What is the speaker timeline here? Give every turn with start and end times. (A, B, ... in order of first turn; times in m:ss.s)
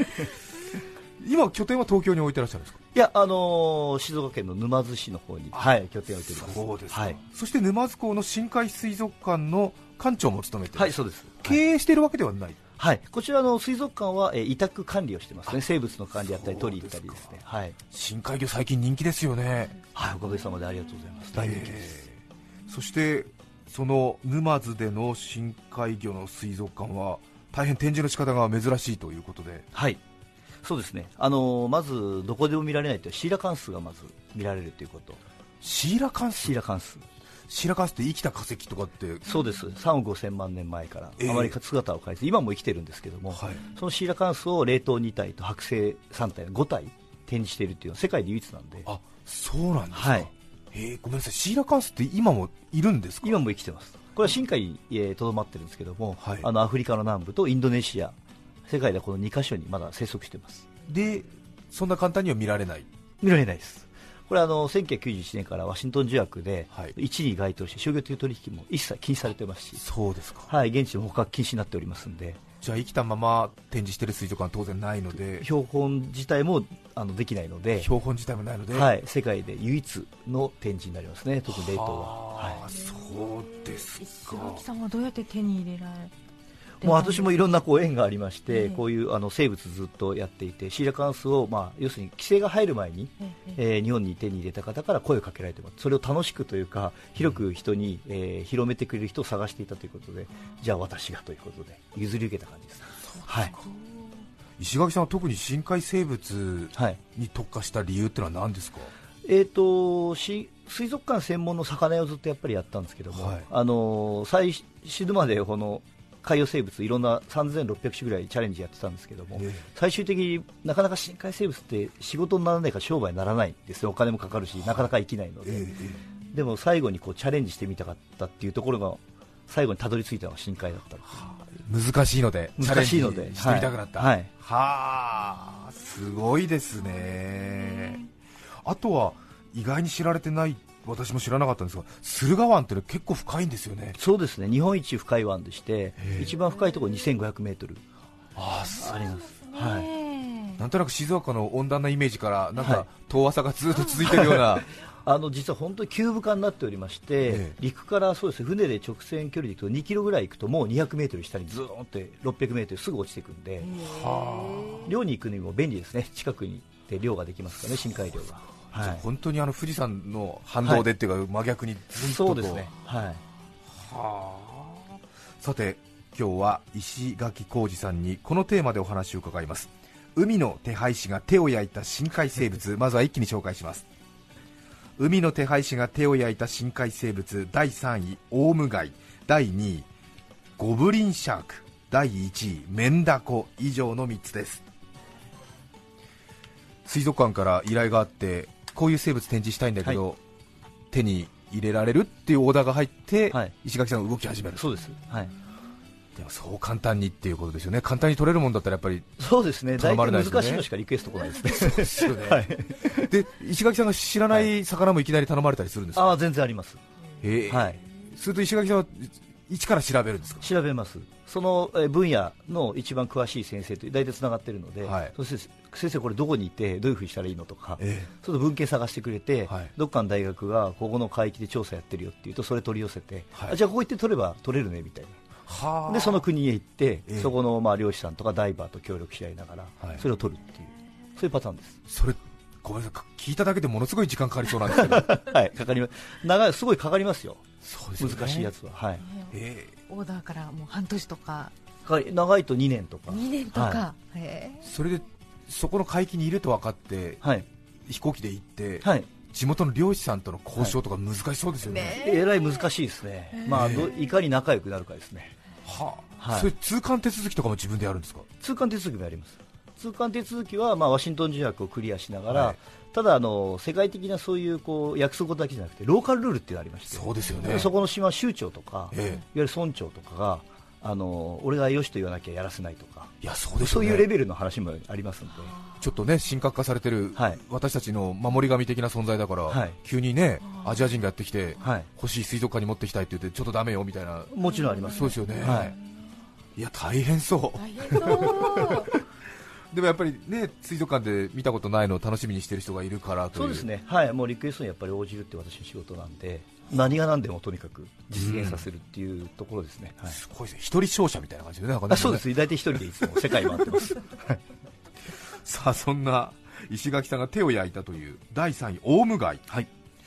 0:01.2-0:02.8 A
0:02.9-0:07.2 B
0:06.3-0:12.6 A
0:10.7-0:11.6 B
0:12.8-0:17.8 B
0:16.2-0:17.4 A
0:17.9-0:19.8 A
0:20.0-0:22.1 B
0:21.3-0:29.7 A
0:29.7-0:30.0 B
0:30.6-0:35.2 B
0:35.6-0:36.5 A
0:36.4-0:37.0 B
0:37.5-0:39.3 A
0:39.3-0:48.9 B
0:41.2-0:41.6 A
0:43.3-0:43.6 A
0:48.9-0:53.4 A
0:49.9-0:50.3 B
0:53.2-0:58.2 B
0:56.2-0:56.5 A
0:58.7-1:00.7 B
1:00.9-1:02.9 A
1:03.2-1:09.8 B
1:09.8-1:10.5 A
1:10.5-1:12.4 B
1:12.6-1:15.5 A
1:15.4-1:17.9 B
1:17.8-1:18.9 A
1:18.7-1:22.6 B
1:21.5-1:24.6 A
1:22.7-1:26.1 C
1:26.8-1:43.5 B
1:26.8-1:27.3 C
1:28.5-1:28.8 C
1:33.2-1:33.5 C
1:43.1-1:44.2 C
1:44.6-1:48.9 A
1:49.2-2:11.3 B
1:53.1-1:53.5 A
1:59.4-1:59.6 A
2:05.5-2:06.0 A
2:11.2-2:18.1 A
2:12.6-2:14.3 B
2:18.6-2:24.0 A
2:24.0-2:27.8 B
2:26.0-2:26.3 A
2:28.4-2:29.1 A
2:28.8-2:29.9 B
2:28.9-2:30.6 C
2:30.6-2:34.7 A
2:32.6-2:32.9 B
2:34.0-2:34.5 B
2:35.0-2:43.8 B
2:37.2-2:37.6 A
2:43.7-2:44.9 C
2:43.8-2:44.9 A
2:44.8-2:49.0 B
2:48.7-2:52.7 A
2:51.9-2:53.2 B
2:53.7-2:54.8 A
2:55.4-3:03.9 A
3:05.0-3:09.9 A
3:10.6-3:14.6 A
3:16.8-3:20.2 A
3:20.9-3:24.6 A
3:24.6-3:25.3 B
3:26.2-3:29.1 A
3:29.2-3:33.1 B
3:29.8-3:30.7 A
3:31.4-3:36.2 A
3:36.0-3:36.8 B
3:37.2-3:40.5 A
3:37.5-3:37.8 B
3:40.4-3:55.2 B
3:44.8-3:45.1 A
3:47.8-3:48.1 A
3:55.5-3:56.3 A
3:55.9-4:01.8 B
4:01.9-4:05.2 A
4:04.7-4:07.4 B
4:07.6-4:08.5 A
4:08.0-4:09.0 B
4:09.0-4:11.5 C
4:09.3-4:09.7 A
4:11.9-4:13.8 B
4:13.1-4:14.7 C
4:14.6-4:17.2 A
4:17.8-4:22.1 A
4:18.8-4:19.1 B
4:21.6-4:22.6 C
4:22.0-4:25.4 B
4:23.4-4:23.9 C
4:23.5-4:23.9 A
4:25.6-4:28.3 A
4:26.2-4:26.5 B
4:28.4-4:45.6 B
4:32.3-4:32.6 A
4:36.9-4:37.7 A
4:38.9-4:39.2 A
4:43.2-4:44.1 A
4:45.8-4:55.8 A
4:49.5-4:49.8 B
4:51.6-4:51.9 B
4:54.3-4:55.7 B
4:54.4-4:56.2 C
4:56.6-4:58.9 A
4:57.6-4:59.0 C
4:59.7-5:03.7 A
5:03.3-5:10.2 B
5:08.1-5:08.7 A
5:10.1-5:12.3 A
5:11.9-5:14.4 B
5:13.0-5:13.8 A
5:15.2-5:19.4 A